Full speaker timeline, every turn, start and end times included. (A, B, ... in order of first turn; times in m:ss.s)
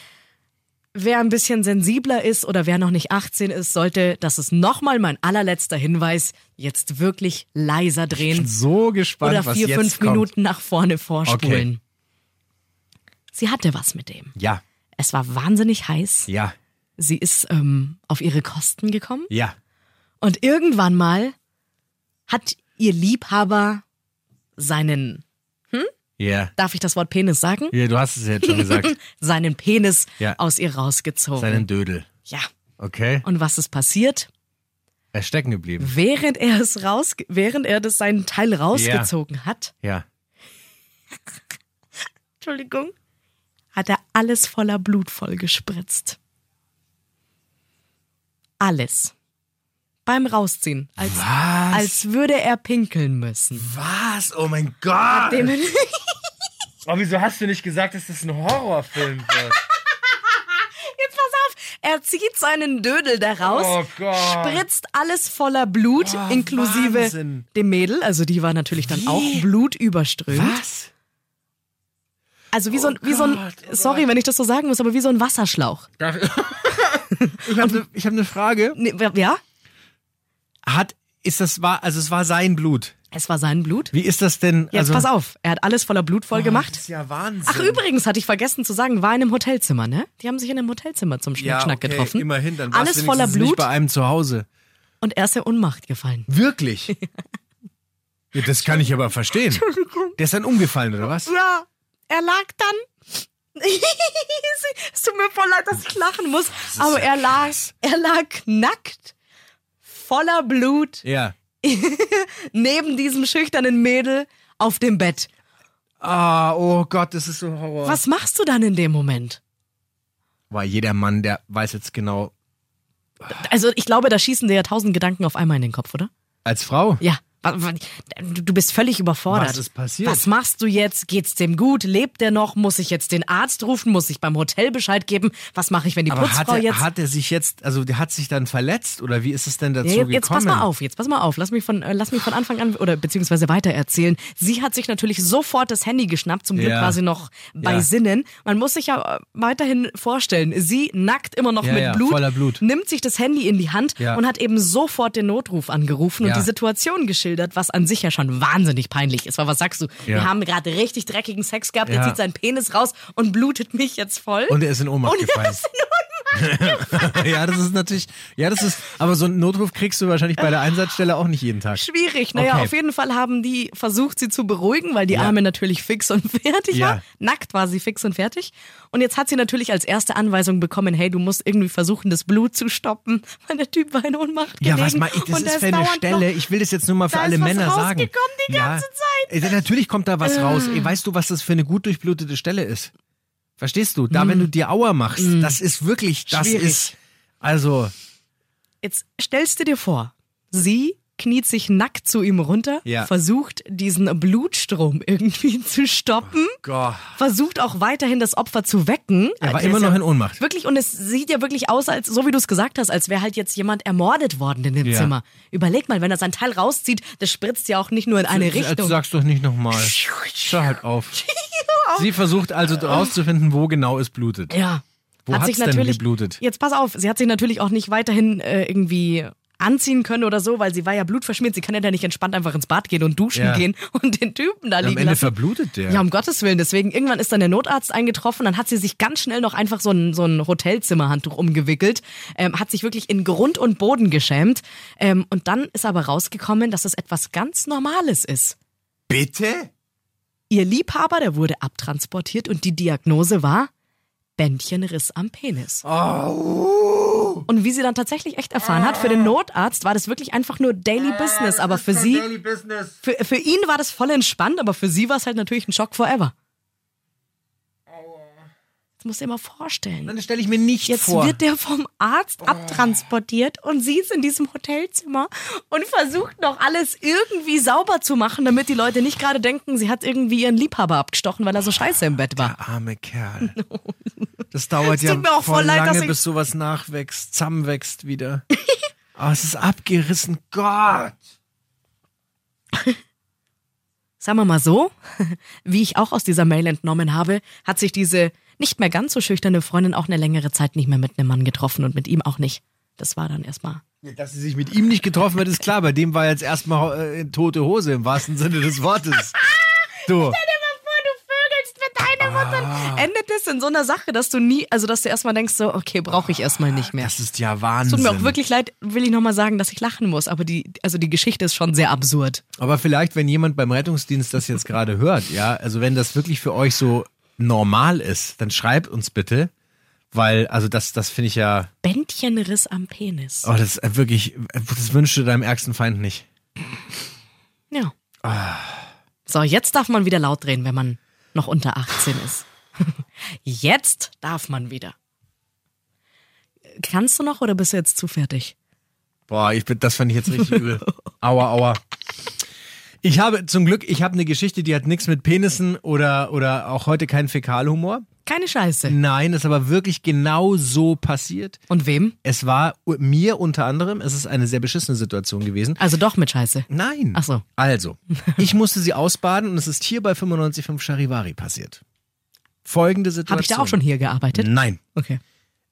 0:00.9-0:08.5 A
0:08.1-0:10.3 B
0:09.2-0:11.8 A
0:11.2-0:11.7 B
0:13.3-0:14.3 A
0:14.4-0:14.6 B
0:15.0-0:16.3 A
0:16.3-0:16.5 B
0:17.0-0:19.3 A
0:19.3-0:19.6 B
0:20.2-0:21.4 A
0:22.3-0:23.8 A
0:24.6-0:25.9 A
0:26.2-0:26.5 B
0:26.6-0:27.8 A
0:27.7-0:29.0 B
0:28.4-0:31.6 A
0:31.4-0:32.1 B
0:32.8-0:33.2 B
0:33.2-0:34.3 A
0:35.1-0:35.9 B
0:35.8-0:39.7 A
0:38.7-0:39.1 B
0:42.4-0:42.9 A
0:43.7-0:46.2 A
0:48.6-0:49.1 A
0:50.1-0:53.7 A
0:51.0-0:52.0 B
0:53.5-0:55.5 B
0:55.1-0:56.1 A
0:56.9-0:59.6 B
1:00.8-1:10.6 A
1:03.4-1:04.7 B
1:06.0-1:07.4 B
1:08.8-1:09.5 B
1:10.3-1:10.9 B
1:12.5-1:15.9 A
1:12.7-1:14.1 B
1:16.0-1:18.8 B
1:16.9-1:17.8 A
1:18.8-1:19.4 A
1:20.7-1:22.9 B
1:23.1-1:23.9 A
1:23.9-1:25.1 B
1:24.7-1:26.8 A
1:26.3-1:27.8 B
1:27.4-1:33.7 A
1:31.4-1:34.4 B
1:35.0-1:36.3 A
1:36.3-1:36.9 B
1:38.3-1:39.7 B
1:38.6-1:38.9 A
1:39.4-1:40.1 A
1:40.2-1:41.3 B
1:41.2-1:49.1 A
1:46.7-1:47.7 B
1:49.8-1:51.0 A
1:51.0-1:51.4 B
1:51.6-1:55.3 A
1:56.0-1:58.0 B
1:57.8-1:59.4 A
2:00.5-2:02.3 B
2:03.3-2:06.1 A
2:06.4-2:07.0 B
2:07.0-2:16.8 A
2:09.3-2:10.2 B
2:16.1-2:20.7 B
2:19.8-2:47.5 A
2:26.6-2:27.0 B
2:27.6-2:27.9 B
2:31.6-2:32.6 B
2:36.2-2:36.5 B
2:41.9-2:42.2 B
2:44.5-2:45.6 B
2:46.3-2:51.8 B
2:51.8-3:06.3 A
2:52.4-2:52.7 B
2:55.1-2:55.4 B
2:56.7-2:57.0 B
3:04.6-3:12.9 B
3:07.1-3:09.5 A
3:10.2-3:11.0 A
3:13.6-3:17.9 B
3:14.1-3:14.5 A
3:15.2-3:15.6 A
3:16.3-3:16.9 A
3:18.8-3:26.6 A
3:22.9-3:23.1 B
3:26.6-3:27.2 B
3:27.1-3:39.0 A
3:29.4-3:30.4 B
3:34.8-3:35.1 B
3:38.3-3:41.2 B
3:39.7-3:42.1 A
3:41.9-3:44.6 B
3:42.8-3:43.1 A
3:44.5-4:08.6 A
3:45.3-3:46.4 B
3:53.4-3:53.7 B
3:54.8-3:56.0 B
4:09.1-4:09.7 B
4:10.5-4:13.7 A
4:14.4-4:15.8 A
4:15.8-4:17.5 B
4:17.5-4:22.3 A
4:18.6-4:19.3 B
4:21.2-4:22.9 B
4:23.0-4:26.3 A
4:29.0-4:30.1 A
4:30.1-4:31.4 B
4:30.9-4:42.5 A
4:32.5-4:33.0 B
4:42.4-4:43.6 B
4:43.4-4:44.2 A
4:44.5-4:48.4 B
4:44.8-4:46.2 A
4:49.2-4:51.2 B
4:54.2-5:03.8 A
5:04.0-5:09.4 B
5:10.1-5:10.4 B
5:10.1-5:17.2 A
5:12.2-5:13.1 B
5:16.3-5:18.4 B
5:17.9-5:22.4 A
5:22.6-5:29.5 B
5:30.1-5:31.7 B
5:31.8-5:33.5 A
5:33.4-5:36.2 B
5:38.2-5:38.9 B
5:39.2-5:45.0 A
5:46.8-5:48.5 A
5:49.3-5:51.8 B
5:53.0-5:58.1 B
5:58.2-5:59.0 A
5:58.9-6:01.6 B
6:01.7-6:02.2 A
6:02.2-6:05.8 B
6:05.8-6:07.4 A
6:06.7-6:11.8 B
6:08.1-6:08.4 A
6:12.6-6:14.8 B
6:13.3-6:15.2 A